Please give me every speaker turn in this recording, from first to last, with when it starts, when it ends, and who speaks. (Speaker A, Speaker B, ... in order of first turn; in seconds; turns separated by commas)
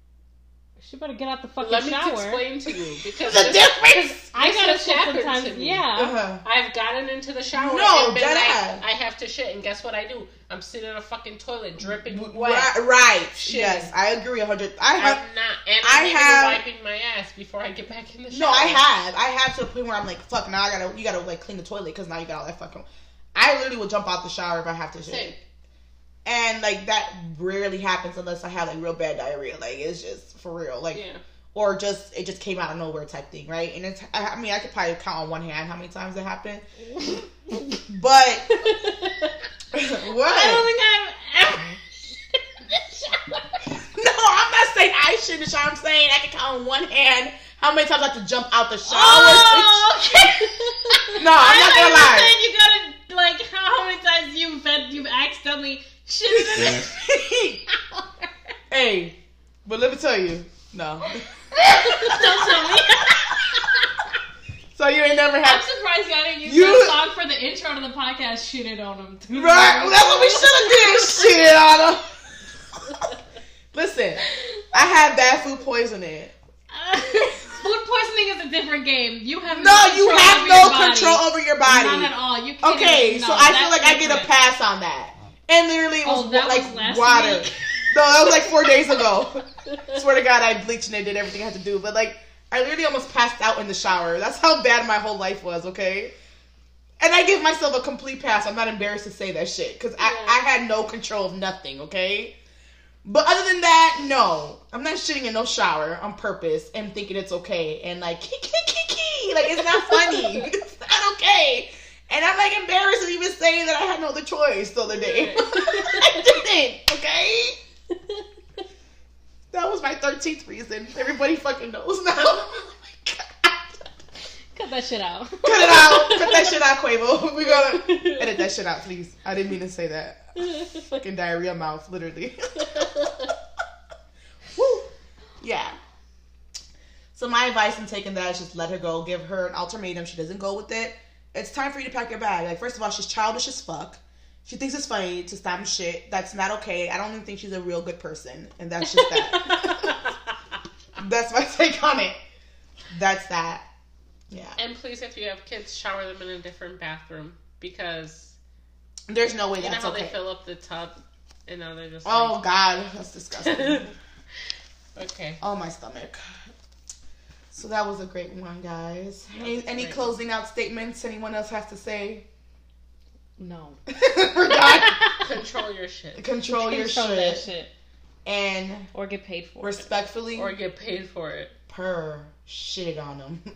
Speaker A: 0.8-2.5, Speaker B: 1.6-3.7, Speaker C: 3.2-4.2, Speaker A: 3.8-6.2, Speaker B: 4.3-5.9, Speaker C: 5.9-6.4, Speaker B: 6.4-12.8, Speaker C: 7.5-8.8, Speaker C: 11.8-15.2, Speaker B: 13.3-13.9, Speaker B: 15.0-18.8, Speaker C: 15.8-16.6, Speaker C: 18.3-25.3, Speaker B: 25.1-25.4, Speaker C: 26.2-31.0, Speaker B: 30.9-31.2, Speaker C: 31.5-36.6, Speaker C: 37.8-38.5, Speaker B: 38.5-39.3, Speaker C: 39.7-40.6, Speaker A: 40.1-43.6, Speaker C: 43.8-50.0, Speaker A: 48.9-57.0, Speaker C: 51.2-52.3, Speaker C: 56.3-57.6, Speaker C: 58.7-63.8, Speaker A: 61.7-63.2, Speaker C: 64.7-65.6, Speaker A: 65.4-71.5, Speaker C: 66.4-67.0, Speaker C: 69.3-72.1, Speaker C: 73.7-76.3, Speaker A: 74.3-74.6, Speaker A: 76.7-84.3, Speaker C: 79.5-96.1, Speaker A: 86.0-88.7, Speaker B: 89.7-90.0, Speaker C: 97.0-102.3, Speaker B: 100.0-100.4, Speaker C: 103.0-117.6, Speaker B: 109.9-110.5, Speaker B: 114.9-116.2, Speaker C: 119.5-123.8, Speaker A: 124.5-126.1, Speaker C: 125.4-132.9, Speaker B: 125.9-126.6, Speaker B: 127.5-128.5, Speaker B: 130.4-131.0, Speaker B: 132.6-133.3, Speaker C: 134.5-135.8, Speaker C: 137.1-150.0, Speaker B: 148.8-150.3, Speaker C: 151.0-152.2, Speaker C: 152.9-153.7, Speaker C: 154.3-154.6, Speaker B: 154.6-158.3, Speaker C: 159.1-160.2, Speaker B: 159.6-160.9, Speaker B: 161.5-162.4, Speaker C: 162.0-163.9, Speaker B: 163.4-163.9, Speaker B: 164.9-165.4, Speaker C: 165.4-166.2, Speaker C: 167.5-172.2, Speaker B: 169.3-170.2, Speaker A: 173.4-173.8, Speaker C: 173.9-175.2, Speaker B: 174.7-176.3, Speaker C: 176.2-177.4, Speaker A: 176.5-177.7, Speaker C: 178.2-178.9, Speaker A: 178.9-179.8, Speaker C: 179.6-180.5, Speaker B: 180.3-181.5, Speaker C: 181.7-183.4